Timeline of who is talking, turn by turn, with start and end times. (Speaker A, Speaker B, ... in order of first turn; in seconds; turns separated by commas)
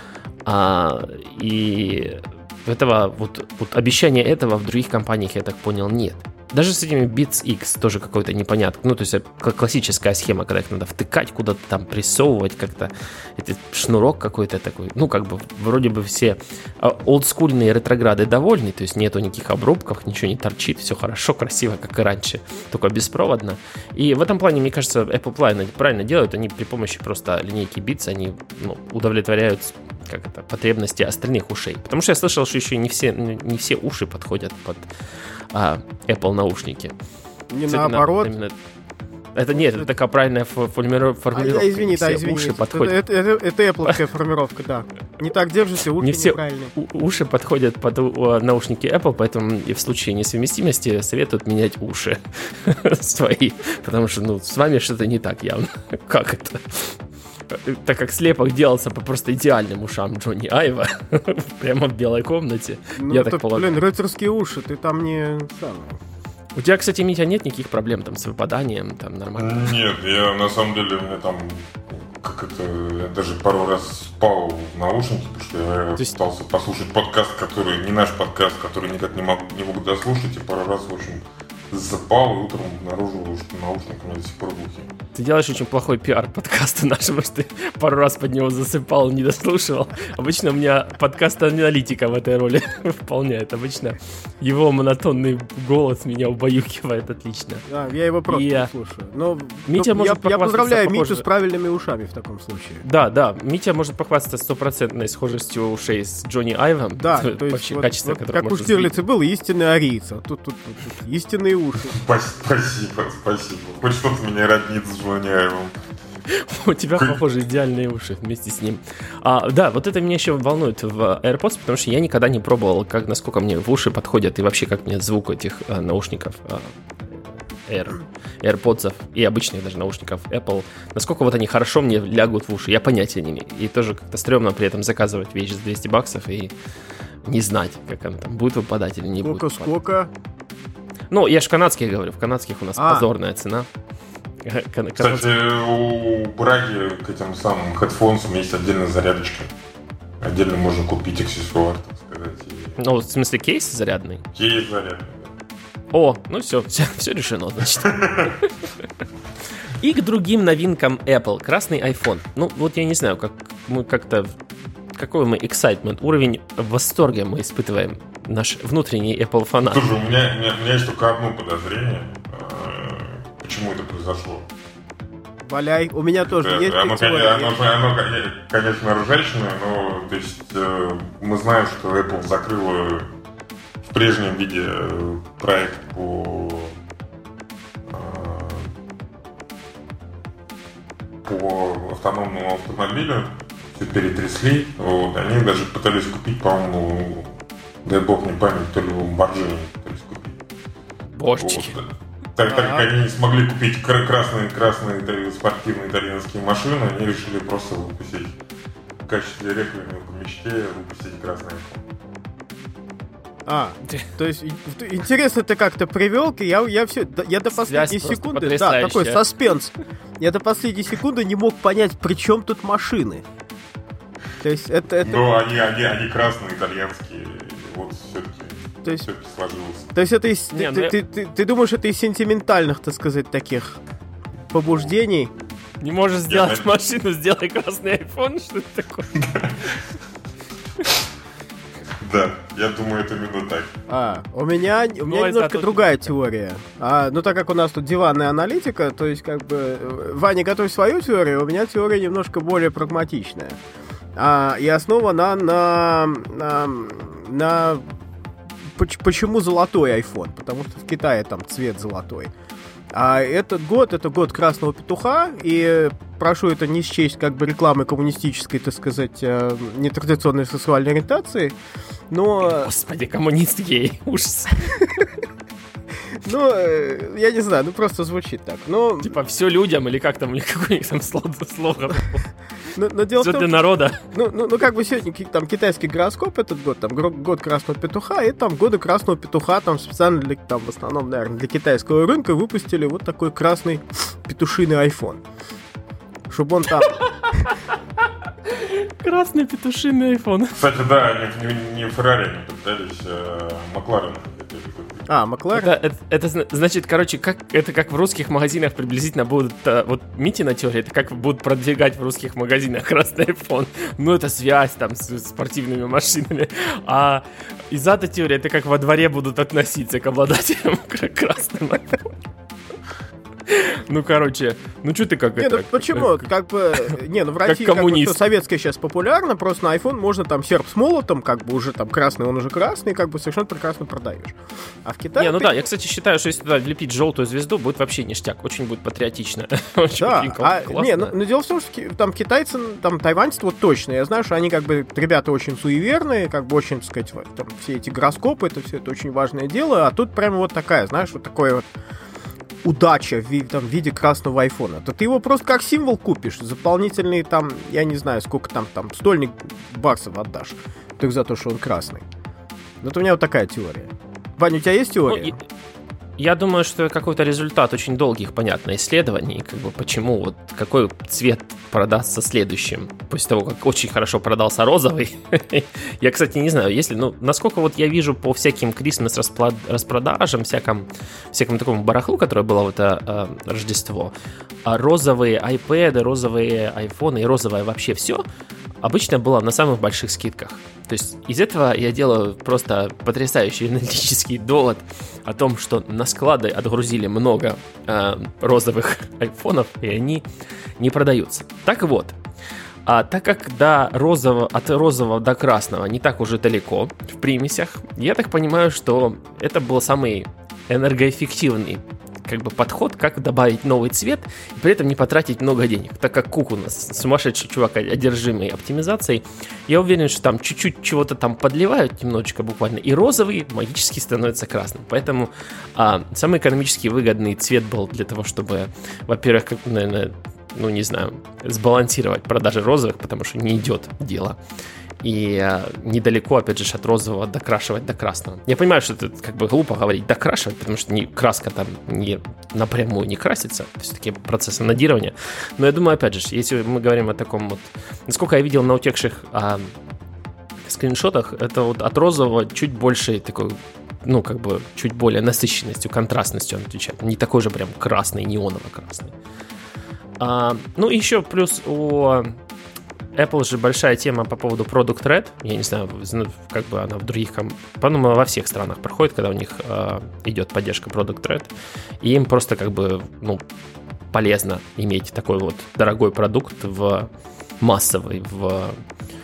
Speaker A: 0.5-34.9, Speaker A: 35.5-36.9, Speaker B: 37.5-38.3, Speaker A: 37.7-38.5, Speaker A: 39.4-43.0, Speaker B: 39.6-39.9, Speaker B: 41.3-46.7, Speaker A: 46.0-57.0, Speaker A: 57.5-63.8, Speaker B: 63.0-66.0, Speaker A: 66.5-69.7, Speaker C: 69.4-84.9, Speaker A: 85.1-97.6, Speaker B: 97.7-102.8, Speaker A: 98.3-98.7, Speaker A: 99.7-101.2, Speaker A: 102.8-108.9, Speaker B: 107.0-112.0, Speaker C: 111.9-115.8, Speaker A: 116.3-136.5, Speaker A: 137.2-139.7, Speaker B: 139.2-140.1, Speaker A: 141.1-143.7, Speaker B: 142.8-143.1, Speaker A: 144.4-145.3, Speaker C: 145.0-149.5, Speaker C: 150.2-152.8, Speaker A: 152.8-154.2, Speaker C: 154.3-155.3, Speaker A: 155.9-158.0, Speaker C: 157.8-158.3, Speaker A: 159.8-164.3, Speaker A: 164.9-169.8, Speaker C: 169.6-174.5, Speaker B: 175.4-177.6, Speaker C: 176.2-183.1, Speaker C: 183.8-186.8, Speaker C: 187.9-188.7, Speaker C: 191.2-197.3, Speaker C: 197.8-200.4, Speaker A: 201.1-201.8, Speaker C: 201.4-208.3, Speaker B: 202.4-202.9, Speaker C: 209.1-211.8, Speaker B: 213.5-223.2, Speaker A: 217.5-219.2, Speaker B: 224.4-225.2, Speaker C: 225.0-229.9, Speaker B: 229.9-233.8, Speaker A: 230.5-230.9, Speaker B: 234.5-235.3, Speaker C: 234.6-234.9, Speaker A: 235.8-239.1, Speaker C: 236.3-236.7, Speaker C: 239.2-239.7, Speaker C: 242.0-243.7, Speaker B: 243.9-253.6, Speaker A: 245.1-246.1, Speaker B: 254.2-257.9, Speaker B: 258.7-262.3, Speaker B: 262.9-271.6, Speaker B: 272.1-272.7, Speaker A: 272.4-274.7, Speaker B: 274.8-275.1, Speaker B: 276.2-279.1, Speaker A: 279.0-282.3, Speaker B: 282.8-283.5, Speaker A: 283.2-284.0, Speaker B: 284.1-295.2, Speaker B: 296.3-296.9, Speaker A: 296.8-297.7, Speaker A: 298.4-300.6, Speaker C: 300.5-305.1, Speaker B: 305.1-305.7, Speaker A: 305.5-322.1, Speaker A: 323.5-326.2, Speaker B: 325.4-335.6, Speaker A: 327.4-328.2, Speaker A: 335.2-341.1, Speaker B: 340.0-351.7, Speaker B: 352.6-362.0, Speaker B: 362.8-365.4, Speaker A: 365.1-365.4, Speaker A: 366.2-388.2, Speaker A: 388.8-400.2, Speaker A: 400.8-402.2, Speaker A: 402.9-434.4, Speaker A: 435.0-449.7, Speaker A: 450.7-459.1, Speaker A: 460.2-462.4, Speaker A: 463.1-473.4, Speaker A: 474.1-477.1, Speaker A: 477.6-478.8